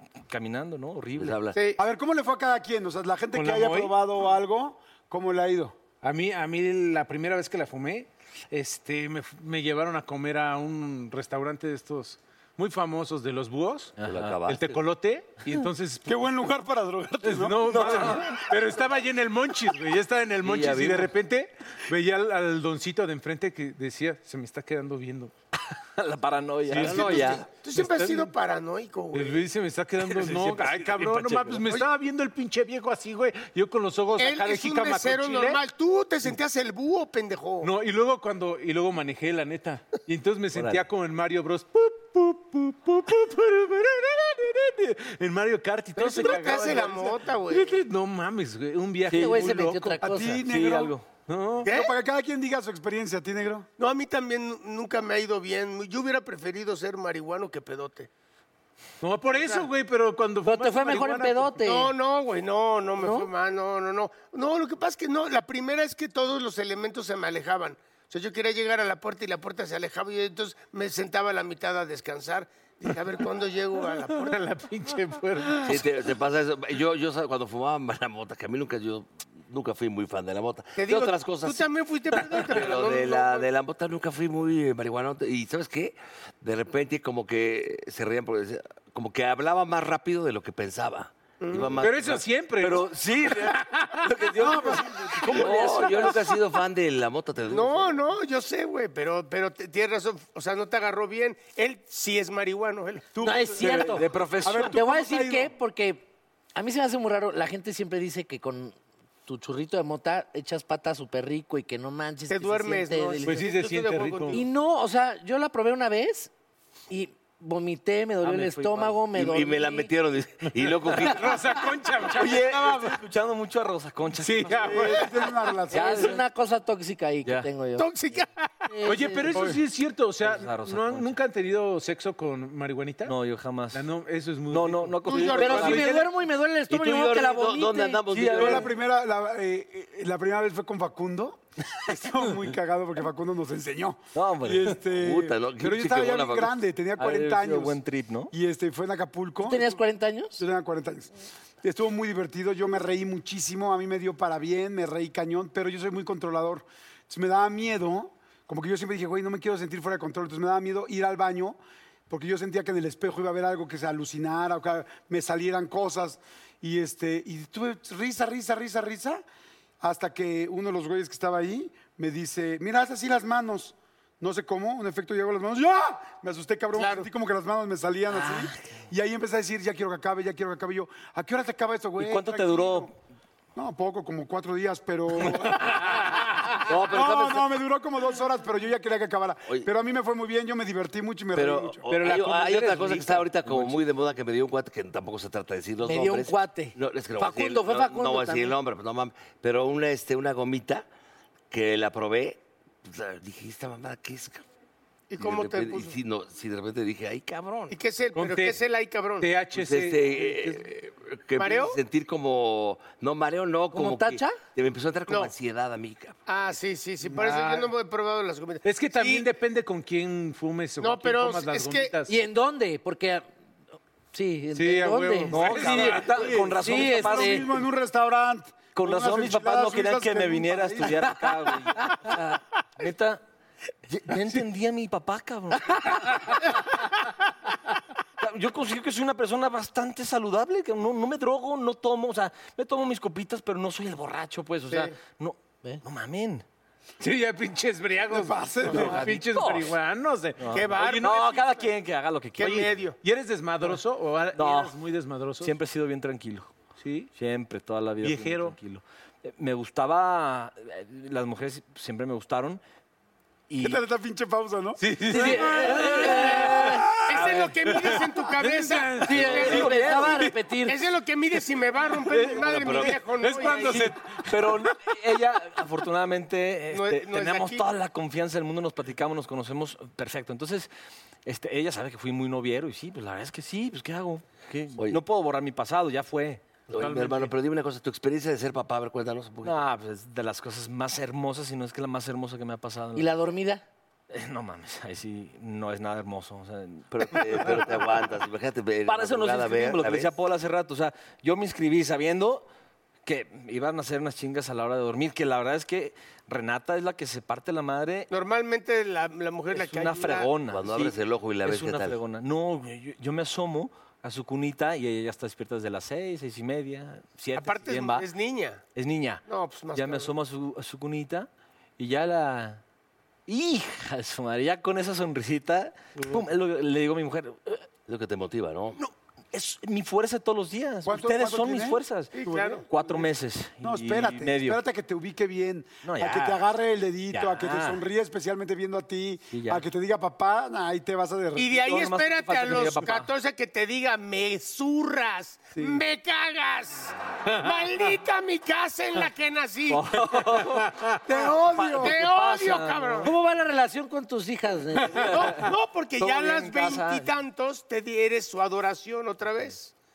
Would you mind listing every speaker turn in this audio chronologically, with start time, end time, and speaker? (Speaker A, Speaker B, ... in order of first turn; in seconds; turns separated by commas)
Speaker A: 0.2-1.4, Speaker B: 1.1-1.6, Speaker C: 1.5-1.8, Speaker D: 1.8-5.8, Speaker E: 3.3-4.0, Speaker E: 6.0-13.9, Speaker A: 14.0-14.4, Speaker B: 14.0-14.8, Speaker E: 14.4-16.3, Speaker D: 16.0-18.1, Speaker E: 17.2-25.3, Speaker A: 17.7-18.4, Speaker A: 20.4-21.1, Speaker A: 26.0-27.4, Speaker E: 26.7-28.3, Speaker B: 26.8-27.5, Speaker C: 26.8-29.4, Speaker E: 29.1-35.6, Speaker A: 30.0-31.6, Speaker C: 34.2-37.7, Speaker E: 37.6-50.0, Speaker A: 40.5-40.8, Speaker C: 46.0-47.8, Speaker A: 49.1-49.5, Speaker F: 49.1-50.4, Speaker D: 50.0-50.9, Speaker A: 50.4-51.0, Speaker E: 51.3-51.7, Speaker C: 51.6-51.9, Speaker D: 51.6-53.7, Speaker C: 53.8-58.1, Speaker E: 59.0-61.5, Speaker C: 59.3-59.7, Speaker F: 60.5-61.9, Speaker C: 61.6-74.4, Speaker F: 63.0-63.3, Speaker E: 74.0-75.8, Speaker B: 75.6-81.7, Speaker C: 80.8-83.5, Speaker B: 82.3-92.2, Speaker C: 91.4-91.8, Speaker E: 91.8-94.7, Speaker A: 92.6-96.2, Speaker D: 94.4-95.5, Speaker B: 95.2-97.9, Speaker C: 97.5-103.1, Speaker D: 103.2-105.5, Speaker F: 103.2-113.3, Speaker A: 103.6-104.8, Speaker C: 112.3-114.5, Speaker E: 113.2-114.4, Speaker F: 114.3-116.3, Speaker F: 116.9-119.9, Speaker A: 118.2-119.0, Speaker B: 119.1-121.4, Speaker E: 120.5-123.0, Speaker A: 122.0-125.0, Speaker E: 124.2-125.5, Speaker D: 124.6-126.2, Speaker F: 125.7-127.9, Speaker A: 125.7-126.2, Speaker A: 127.2-127.5, Speaker C: 127.7-128.3, Speaker F: 128.7-129.4, Speaker E: 128.8-133.2, Speaker A: 130.2-131.2, Speaker A: 133.1-133.8, Speaker E: 133.7-136.2, Speaker A: 134.5-135.8, Speaker C: 135.0-135.9, Speaker F: 135.4-138.0, Speaker B: 136.7-138.7, Speaker A: 138.1-138.7, Speaker D: 138.3-147.8, Speaker A: 144.1-144.7, Speaker B: 144.9-146.5, Speaker A: 147.0-148.3, Speaker D: 148.3-149.8, Speaker F: 149.4-150.4, Speaker D: 150.4-151.1, Speaker D: 151.6-169.2, Speaker D: 169.8-182.9, Speaker C: 176.8-177.1, Speaker A: 178.1-178.6, Speaker A: 182.0-182.9, Speaker D: 183.6-186.1, Speaker B: 186.6-187.5, Speaker D: 186.9-191.8, Speaker B: 191.3-200.8, Speaker E: 191.9-192.4, Speaker F: 191.9-193.2, Speaker A: 193.4-193.8, Speaker F: 195.8-198.6, Speaker B: 201.5-204.4, Speaker C: 205.1-206.0, Speaker B: 205.2-207.8, Speaker C: 207.7-209.3, Speaker E: 208.1-208.6, Speaker E: 209.2-210.6, Speaker B: 209.5-216.2, Speaker C: 211.3-211.8, Speaker F: 213.7-214.4, Speaker C: 215.1-215.3, Speaker C: 216.2-219.3, Speaker E: 217.0-217.7, Speaker E: 218.6-222.1, Speaker C: 220.8-222.0, Speaker F: 222.1-223.2, Speaker F: 224.1-226.0, Speaker E: 224.5-226.6, Speaker A: 225.3-227.5, Speaker D: 226.0-231.3, Speaker F: 226.6-227.4, Speaker A: 228.7-233.2, Speaker A: 233.9-236.2, Speaker A: 238.2-246.4, Speaker C: 244.7-244.9, Speaker E: 247.0-251.4, Speaker D: 248.1-249.0, Speaker C: 248.7-249.0, Speaker A: 249.0-249.7, Speaker A: 250.4-252.6, Speaker C: 250.4-251.7, Speaker C: 252.3-253.0, Speaker E: 252.4-255.5, Speaker A: 254.3-254.8, Speaker A: 255.4-256.5, Speaker E: 256.8-257.1, Speaker A: 257.1-262.6, Speaker E: 258.0-258.6, Speaker A: 263.5-263.8, Speaker D: 263.6-264.8, Speaker E: 264.8-270.3, Speaker F: 265.1-266.9, Speaker A: 265.1-266.6, Speaker C: 267.0-269.8, Speaker F: 269.0-270.8, Speaker A: 269.3-270.2, Speaker C: 270.6-273.9, Speaker E: 271.8-274.9, Speaker B: 272.4-273.0, Speaker A: 273.7-280.7, Speaker C: 276.7-277.7, Speaker A: 281.2-286.5, Speaker B: 284.8-285.0, Speaker B: 286.7-289.6, Speaker E: 286.7-287.3, Speaker A: 289.4-293.1, Speaker F: 292.9-293.6, Speaker A: 294.1-297.5, Speaker B: 296.9-300.1, Speaker A: 298.9-302.5, Speaker A: 303.0-308.1, Speaker C: 308.1-310.3, Speaker A: 309.5-318.1, Speaker B: 310.5-312.0, Speaker C: 317.4-318.6, Speaker A: 318.7-322.6, Speaker C: 319.2-320.1, Speaker A: 323.3-327.7, Speaker B: 327.9-328.8, Speaker A: 328.8-334.6, Speaker D: 330.8-332.6, Speaker C: 332.1-333.0, Speaker D: 333.6-341.6, Speaker A: 335.8-336.4, Speaker A: 337.1-337.8, Speaker A: 339.3-339.6, Speaker C: 341.4-349.9, Speaker A: 341.6-343.1, Speaker D: 345.6-345.8, Speaker A: 349.7-350.7, Speaker E: 350.3-350.8, Speaker D: 351.1-352.0, Speaker A: 351.5-353.1, Speaker C: 351.7-353.1, Speaker F: 353.0-355.3, Speaker C: 354.9-359.7, Speaker A: 355.0-357.1